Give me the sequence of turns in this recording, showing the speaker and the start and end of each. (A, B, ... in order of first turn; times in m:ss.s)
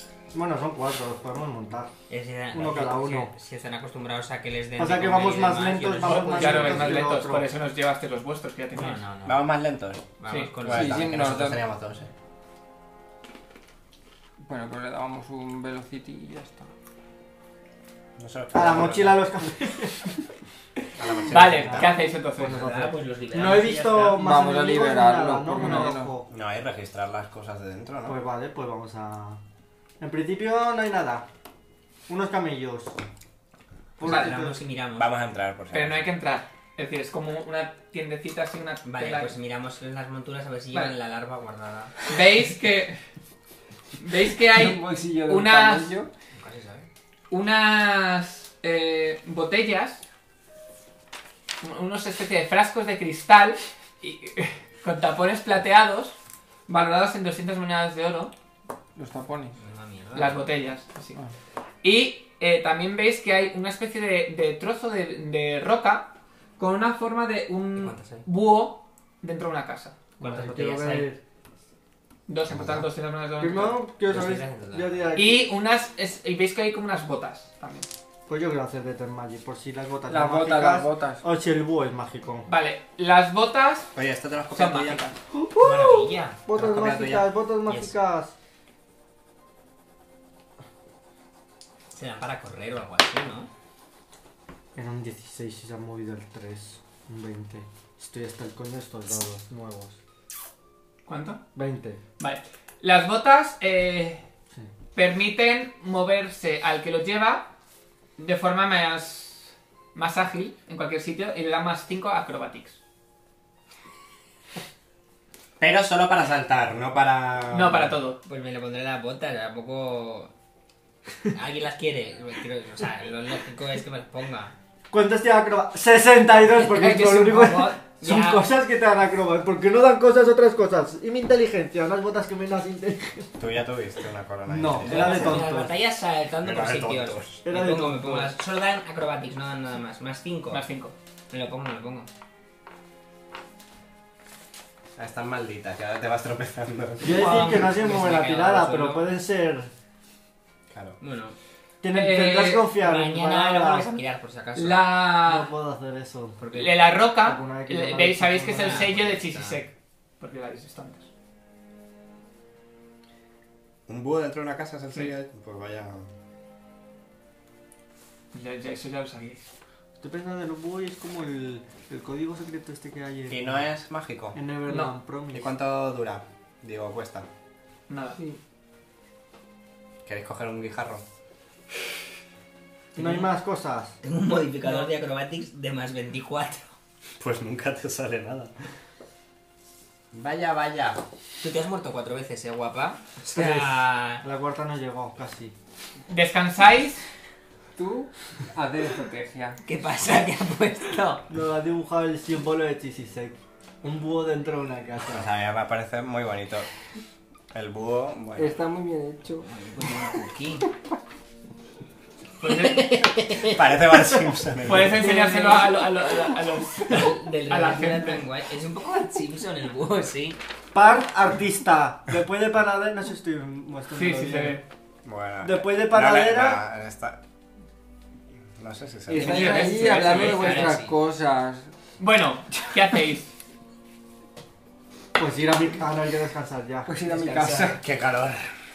0:00.3-0:01.9 A
0:02.1-0:07.0 B
0:02.5-0:03.3 A
0:04.8-0:07.5 A
0:06.0-0:09.0 C
0:08.7-0:09.5 B
0:09.3-0:12.1 D
0:10.2-0:11.1 B
0:10.7-0:11.6 E
0:14.4-0:16.7 E
0:18.2-0:19.2 D
0:18.5-0:20.2 A
0:21.0-0:21.9 D
0:21.2-0:22.6 C
0:21.3-0:26.3 A
0:22.4-0:24.2 B
0:24.2-0:26.1 E
0:25.6-0:25.9 C
0:26.3-0:28.2 D
0:28.1-0:29.4 A
0:30.0-0:31.3 A
0:32.1-0:33.0 A
0:34.0-0:34.6 A
0:34.0-0:35.1 B
0:34.1-0:34.3 C
0:35.0-0:36.1 D
0:35.7-0:39.4 C
0:38.8-0:42.1 B
0:42.1-0:43.0 C
0:44.0-0:45.9 C
0:44.5-0:46.1 E
0:46.3-0:46.9 B
0:47.3-0:50.0 C
0:51.6-0:58.3 C
0:59.0-0:59.6 E
0:59.6-1:00.4 B
1:00.2-1:01.2 C
1:01.8-1:10.0 C
1:07.8-1:08.3 B
1:10.2-1:11.1 B
1:10.2-1:11.2 A
1:12.3-1:13.8 C
1:13.4-1:15.5 A
1:14.1-1:15.1 B
1:15.2-1:17.9 C
1:18.3-1:22.5 A
1:20.1-1:21.2 E
1:22.5-1:23.9 C
1:24.0-1:25.1 D
1:24.5-1:25.2 C
1:25.3-1:28.3 A
1:25.6-1:27.9 B
1:31.9-1:33.5 B
1:34.8-1:40.0 A
1:41.1-1:41.4 C
1:41.6-1:42.0 A
1:42.2-1:44.2 C
1:45.0-1:47.5 C
1:48.2-1:52.8 C
1:55.6-1:58.0 D
1:57.5-1:58.2 C
1:58.2-2:00.3 B
2:01.3-2:04.6 B
2:04.9-2:13.4 A
2:06.5-2:08.5 B
2:13.4-2:15.4 D
2:14.5-2:15.7 A
2:14.8-2:20.6 B
2:16.4-2:17.4 D
2:17.4-2:18.4 A
2:20.5-2:21.0 C
2:21.3-2:22.1 B
2:25.0-2:27.4 D
2:27.0-2:29.7 A
2:27.0-2:29.2 B
2:30.7-2:31.0 D
2:31.0-2:31.4 B
2:31.8-2:34.0 A
2:31.9-2:32.7 C
2:32.7-2:35.0 B
2:34.6-2:35.5 C
2:35.2-2:36.5 A
2:36.4-2:36.8 B
2:36.5-2:41.1 C
2:37.1-2:39.0 A
2:38.5-2:39.6 B
2:43.9-2:46.1 D
2:48.3-2:49.5 C
2:50.0-2:53.6 A
2:53.3-2:54.4 D
2:54.3-2:55.5 A
2:54.7-2:54.9 C
2:55.3-2:57.3 D
2:57.9-2:58.2 C
3:00.0-3:01.0 D
3:03.0-3:03.3 B
3:03.0-3:04.0 A
3:04.0-3:06.7 B
3:07.2-3:08.5 D
3:10.1-3:11.0 D
3:11.4-3:14.2 B
3:13.3-3:15.5 A
3:16.1-3:17.0 C
3:17.8-3:19.6 E
3:19.7-3:21.2 B
3:21.3-3:25.3 A
3:25.1-3:26.7 D
3:27.5-3:28.6 D
3:28.4-3:29.9 E
3:29.4-3:30.7 B
3:32.4-3:33.1 C
3:33.4-3:35.1 D
3:34.6-3:38.2 C
3:35.0-3:36.1 E
3:36.9-3:40.4 B
3:40.7-3:44.6 A
3:43.9-3:44.6 C
3:45.0-3:47.2 D
3:45.4-3:46.6 A
3:48.6-3:49.4 D
3:49.1-3:51.7 E
3:49.1-3:50.7 C
3:49.2-3:50.9 B
3:52.0-3:53.3 C
3:55.2-3:56.9 A
3:56.9-3:57.8 E
3:57.1-3:57.7 B
3:57.4-3:58.5 D